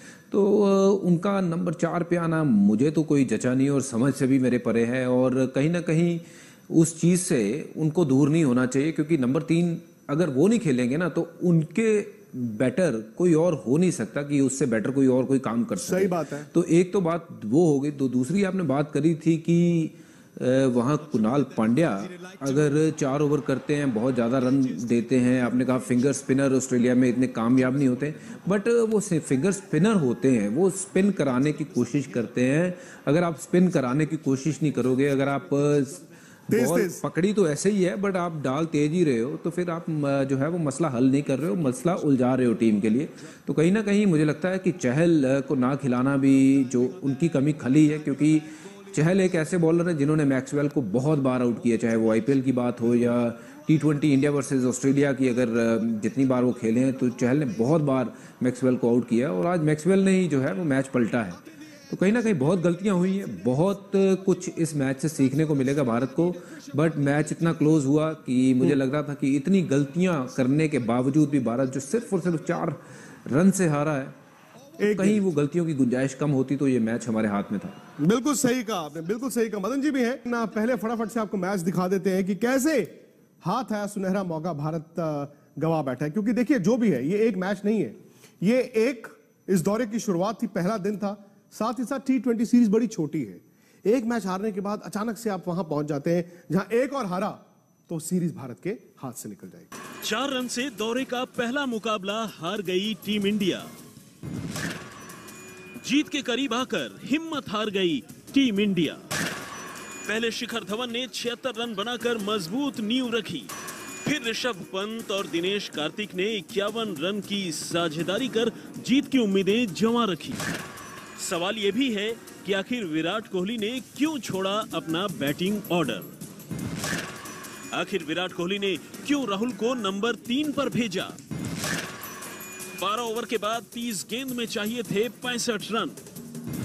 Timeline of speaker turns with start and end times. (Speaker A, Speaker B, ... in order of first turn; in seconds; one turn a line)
Speaker A: 0.3-61.4
Speaker B: 15.8-16.5
Speaker B: 36.5-37.0
Speaker A: 61.9-74.1
Speaker B: 74.8-75.2
Speaker A: 74.9-77.8
Speaker B: 78.0-82.9
Speaker B: 83.4-99.7
Speaker C: 100.0-103.7
Speaker C: 105.8-109.0
Speaker C: 110.0-113.5
Speaker C: 114.0-120.4
Speaker C: 121.2-126.1
Speaker C: 127.7-131.2
Speaker C: 132.8-136.0